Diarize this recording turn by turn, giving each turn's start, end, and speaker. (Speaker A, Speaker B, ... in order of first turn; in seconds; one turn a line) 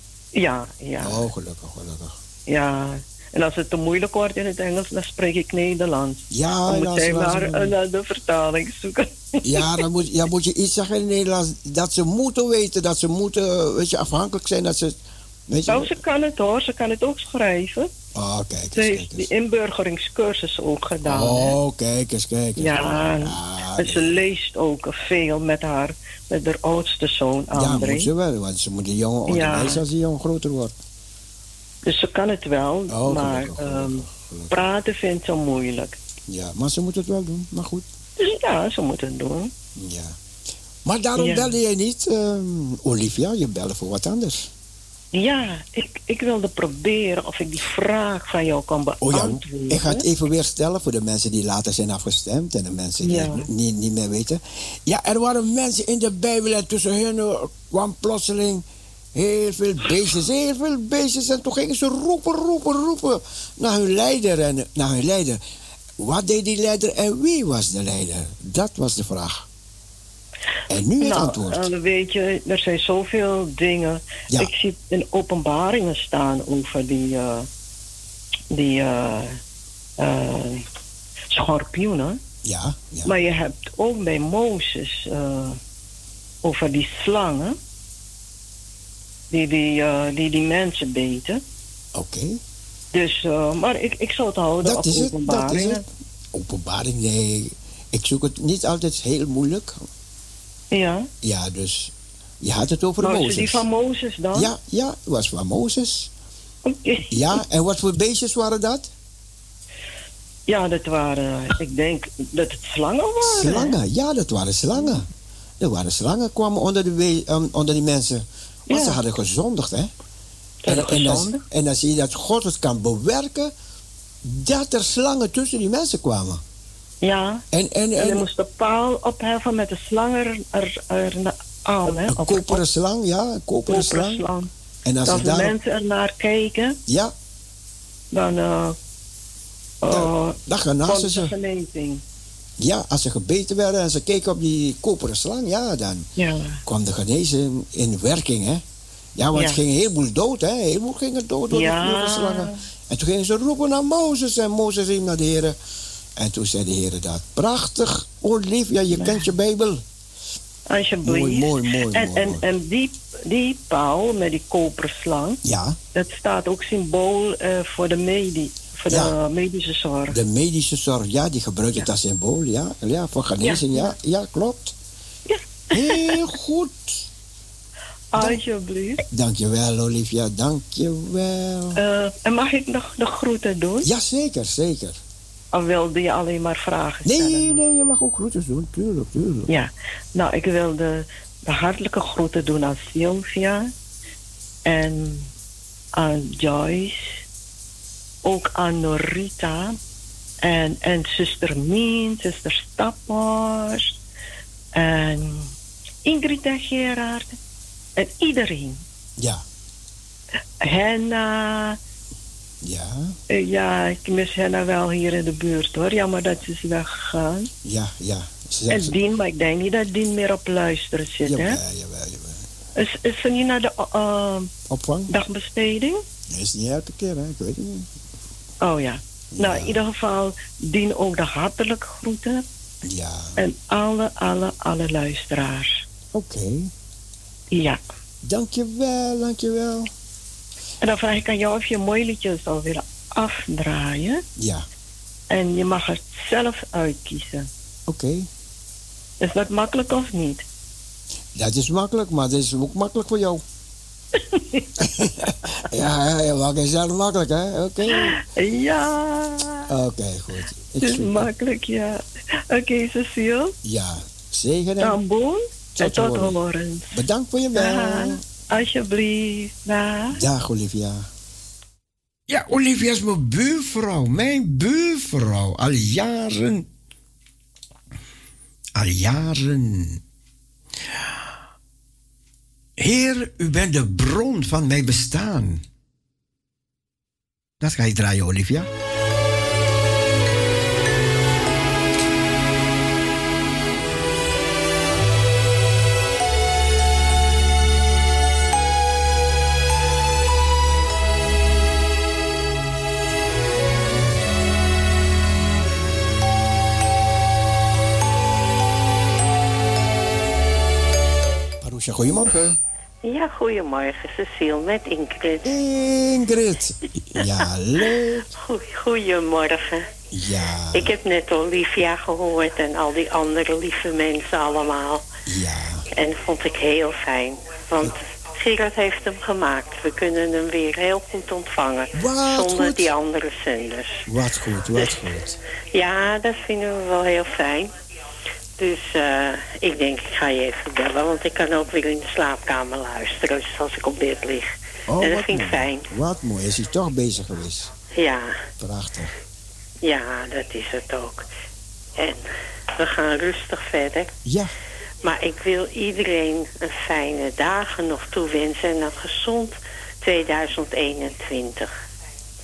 Speaker A: 0.3-1.3
Speaker B: 1.0-2.2
Speaker A: 2.5-9.8
Speaker B: 6.3-7.7
Speaker B: 9.4-16.0
Speaker A: 15.7-17.9
Speaker B: 18.1-19.3
Speaker A: 18.7-21.6
Speaker B: 21.0-24.1
Speaker A: 22.6-28.1
Speaker B: 27.5-30.7
Speaker A: 29.3-29.8
Speaker A: 31.9-36.0
Speaker B: 32.9-34.6
Speaker B: 36.3-37.9
Speaker A: 38.2-39.5
Speaker B: 39.8-40.2
Speaker B: 40.9-44.5
Speaker A: 41.2-41.5
Speaker A: 45.1-50.1
Speaker B: 49.0-65.4
Speaker A: 53.0-53.5
Speaker B: 66.0-69.5
Speaker B: 70.7-71.7
Speaker A: 71.0-77.5
Speaker A: 78.5-79.4
Speaker A: 80.0-80.6
Speaker A: 81.3-82.2
Speaker B: 82.4-83.1
Speaker A: 83.0-85.6
Speaker A: 86.4-87.6
Speaker A: 89.3-91.4
Speaker B: 92.0-92.4
Speaker A: 92.9-95.8
Speaker B: 94.6-95.8
Speaker B: 96.3-99.9
Speaker A: 100.7-101.1
Speaker B: 101.2-103.7
Speaker A: 103.0-104.5
Speaker B: 104.3-106.1
Speaker A: 106.7-107.4
Speaker B: 107.1-108.9
Speaker A: 110.5-113.8
Speaker B: 113.2-115.1
Speaker B: 115.6-119.9
Speaker A: 118.7-119.0
Speaker A: 120.6-121.4
Speaker B: 120.7-123.5
Speaker B: 124.2-126.4
Speaker A: 127.0-127.4
Speaker B: 127.5-128.3
Speaker A: 128.0-132.6
Speaker B: 132.1-134.2
Speaker A: 133.7-134.5
Speaker B: 134.8-135.6
Speaker A: 135.1-136.8
Speaker B: 136.9-137.1
Speaker A: 138.1-138.8
Speaker A: 139.8-142.0
Speaker B: 139.9-141.3
Speaker B: 142.6-146.1
Speaker A: 146.2-146.6
Speaker B: 146.7-148.6
Speaker B: 149.2-155.6
Speaker A: 149.3-149.6
Speaker A: 151.5-152.6
Speaker B: 156.2-159.8
Speaker A: 158.9-159.3
Speaker A: 160.7-165.4
Speaker B: 161.0-162.4
Speaker B: 165.4-165.8
Speaker A: 165.9-170.2
Speaker B: 168.9-169.2
Speaker B: 170.1-174.8
Speaker A: 173.4-173.9
Speaker A: 175.3-176.3
Speaker B: 175.7-177.1
Speaker A: 178.1-179.0
Speaker B: 179.1-181.8
Speaker A: 181.8-183.9
Speaker B: 183.8-185.0
Speaker A: 185.5-187.7
Speaker B: 187.1-189.5
Speaker A: 189.5-193.7
Speaker A: 194.7-195.3
Speaker A: 195.9-197.2
Speaker A: 198.2-199.8
Speaker A: 200.4-204.0
Speaker A: 204.8-205.5
Speaker A: 206.1-207.4
Speaker A: 208.0-208.8
Speaker B: 209.2-209.4
Speaker A: 210.6-211.8
Speaker B: 212.6-213.2
Speaker A: 213.3-217.5
Speaker B: 217.6-218.9
Speaker A: 218.7-221.6
Speaker B: 221.2-222.5
Speaker A: 222.8-224.5
Speaker B: 224.7-225.1
Speaker A: 225.1-226.0
Speaker B: 226.3-227.9
Speaker A: 228.6-232.4
Speaker B: 229.3-229.8
Speaker B: 232.8-233.4
Speaker A: 233.4-235.8
Speaker B: 236.1-236.7
Speaker A: 237.5-237.8
Speaker B: 238.2-239.9
Speaker A: 240.8-244.2
Speaker B: 244.4-244.7
Speaker A: 245.3-247.5
Speaker B: 247.9-248.3
Speaker A: 249.2-250.4
Speaker B: 251.4-253.4
Speaker A: 254.3-254.7
Speaker B: 254.8-258.2
Speaker A: 257.9-259.7
Speaker B: 259.7-261.3
Speaker A: 260.8-263.6
Speaker B: 263.6-265.0
Speaker A: 264.8-267.0
Speaker B: 265.8-266.4
Speaker B: 266.9-268.2
Speaker A: 267.5-270.2
Speaker B: 270.1-271.1
Speaker B: 272.3-276.7
Speaker B: 278.8-280.0
Speaker B: 282.8-285.6
Speaker B: 287.6-288.7
Speaker B: 311.6-312.6
Speaker C: 313.0-315.5
Speaker B: 315.4-318.3
Speaker C: 317.2-317.4
Speaker C: 318.3-319.9
Speaker B: 320.1-320.9
Speaker C: 320.7-325.1
Speaker B: 325.3-325.9
Speaker C: 325.9-334.1
Speaker B: 331.9-332.9
Speaker B: 334.1-335.4
Speaker C: 335.7-337.7
Speaker C: 338.6-345.9
Speaker B: 344.9-347.7
Speaker C: 347.9-348.4
Speaker B: 348.6-349.1
Speaker C: 349.8-351.3
Speaker C: 352.0-352.2
Speaker C: 352.8-354.1
Speaker B: 354.2-354.5
Speaker C: 355.0-361.7